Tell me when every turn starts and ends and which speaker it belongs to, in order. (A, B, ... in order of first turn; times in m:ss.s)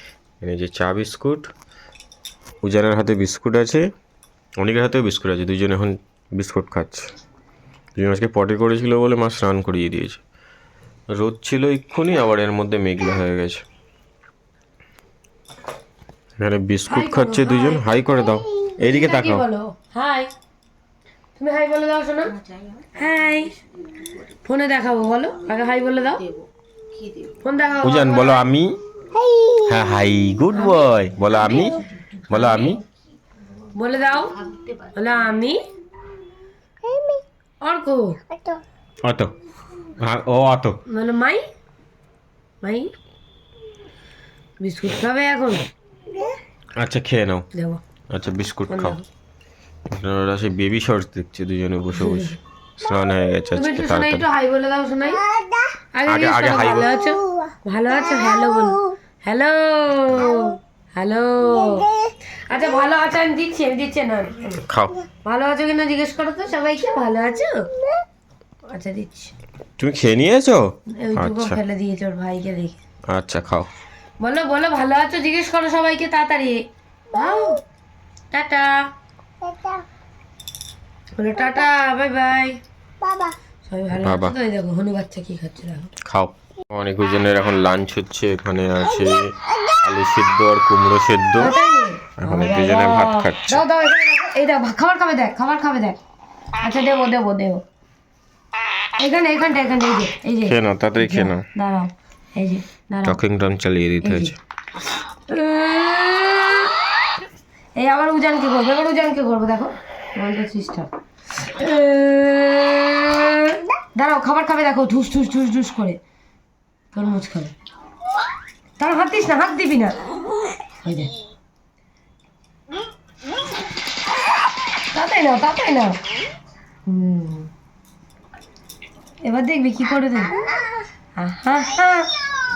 0:00.4-0:01.5 A
0:02.6-0:03.9 A
0:04.6-0:07.1 A
0:08.0-0:10.2 A
0:11.1-0:13.6 A
0:16.4-0:19.4 A
0:16.9-0:17.9 B
0:18.8-0:20.3 B
0:21.4-0:22.4 B
0:22.9-0:23.6 B
0:24.4-0:26.3 B
0:27.4-0:28.4 B
0:27.8-0:28.8 A
0:29.5-0:32.8 A
0:32.4-0:32.7 B
0:33.7-0:35.6 B
0:37.6-0:38.2 B
0:39.0-0:39.3 A
0:40.0-0:40.8 A
0:40.9-0:41.4 B
0:42.6-0:42.9 B
0:44.6-0:45.7 B
0:46.8-0:47.5 A
0:47.5-0:47.8 B
0:48.1-0:49.0 A
0:48.7-0:49.0 B
0:49.9-0:54.3 A
0:52.0-0:52.4 B
0:53.6-0:55.3 B
0:55.9-1:01.9 B
0:56.1-0:56.9 A
1:02.5-1:04.6 B
1:04.6-1:05.0 A
1:05.2-1:07.7 B
1:08.7-1:09.3 B
1:09.8-1:11.6 A
1:11.0-1:12.8 B
1:13.1-1:13.7 A
1:14.2-1:17.6 B
1:18.3-1:18.9 B
1:21.2-1:22.6 B
1:23.7-1:25.9 B
1:24.0-1:24.4 A
1:26.1-1:31.5 A
1:31.4-1:36.0 B
1:32.2-1:33.6 A
1:36.6-1:37.6 B
1:39.0-1:43.2 B
1:40.5-1:41.4 A
1:43.0-1:44.3 A
1:44.0-1:44.4 B
1:45.3-1:46.7 B
1:47.8-1:56.0 B
1:56.9-1:57.5 B
1:58.8-2:00.0 B
2:00.8-2:01.1 B
2:04.9-2:06.0 B
2:06.9-2:07.5 B
2:09.2-2:10.4 B
2:11.2-2:12.1 B